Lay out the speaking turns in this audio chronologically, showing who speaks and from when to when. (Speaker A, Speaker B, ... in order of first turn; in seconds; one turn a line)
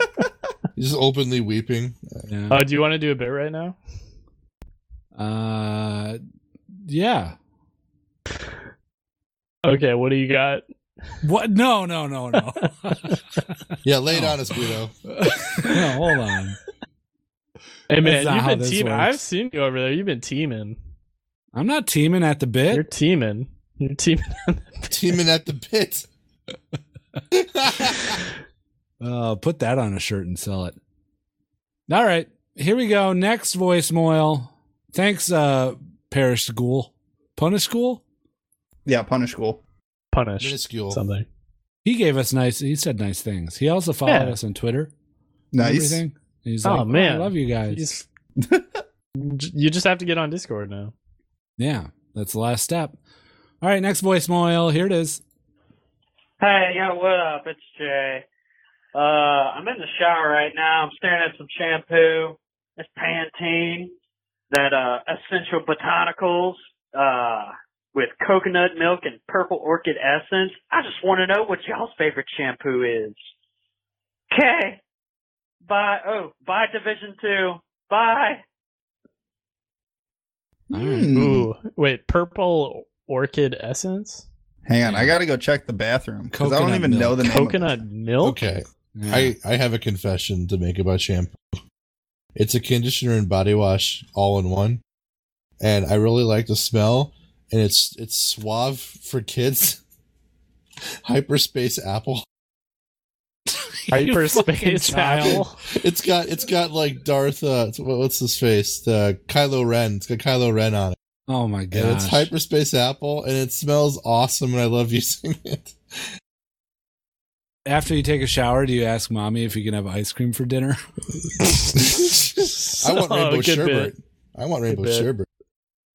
Speaker A: 0.8-2.2
Speaker B: 2.3-2.6
Speaker C: 2.5-3.8
Speaker B: 5.2-6.2
Speaker B: 6.8-7.3
Speaker C: 9.7-10.7
Speaker B: 11.2-13.2
Speaker A: 13.8-14.9
Speaker B: 14.1-14.4
Speaker B: 15.1-16.6
Speaker C: 17.9-20.8
Speaker B: 18.0-19.2
Speaker B: 21.5-22.8
Speaker C: 22.7-25.1
Speaker A: 24.9-26.1
Speaker A: 27.3-28.2
Speaker B: 29.0-30.8
Speaker B: 31.9-38.0
Speaker D: 38.9-39.6
Speaker C: 40.1-41.2
Speaker A: 40.4-41.0
Speaker B: 41.8-44.9
Speaker C: 44.1-44.4
Speaker D: 45.5-46.0
Speaker B: 45.6-47.8
Speaker C: 46.6-48.0
Speaker D: 48.4-48.8
Speaker C: 49.2-50.9
Speaker B: 51.6-53.0
Speaker B: 53.6-55.2
Speaker E: 56.4-58.2
Speaker E: 58.9-63.9
Speaker E: 64.5-73.2
Speaker E: 74.3-74.8
Speaker E: 75.7-78.4
Speaker D: 80.7-81.5
Speaker B: 80.7-81.1
Speaker C: 81.1-84.2
Speaker D: 84.7-87.7
Speaker B: 84.8-85.2
Speaker B: 86.3-87.3
Speaker C: 87.2-88.4
Speaker A: 88.2-91.4
Speaker B: 89.0-89.3
Speaker A: 92.4-94.8
Speaker A: 95.6-99.8
Speaker A: 101.0-102.2
Speaker B: 103.6-105.4
Speaker C: 103.9-105.6
Speaker A: 105.7-111.0
Speaker B: 111.3-112.3
Speaker A: 111.7-116.1
Speaker B: 117.7-120.8
Speaker A: 121.8-125.3
Speaker C: 122.7-123.9
Speaker C: 124.7-125.1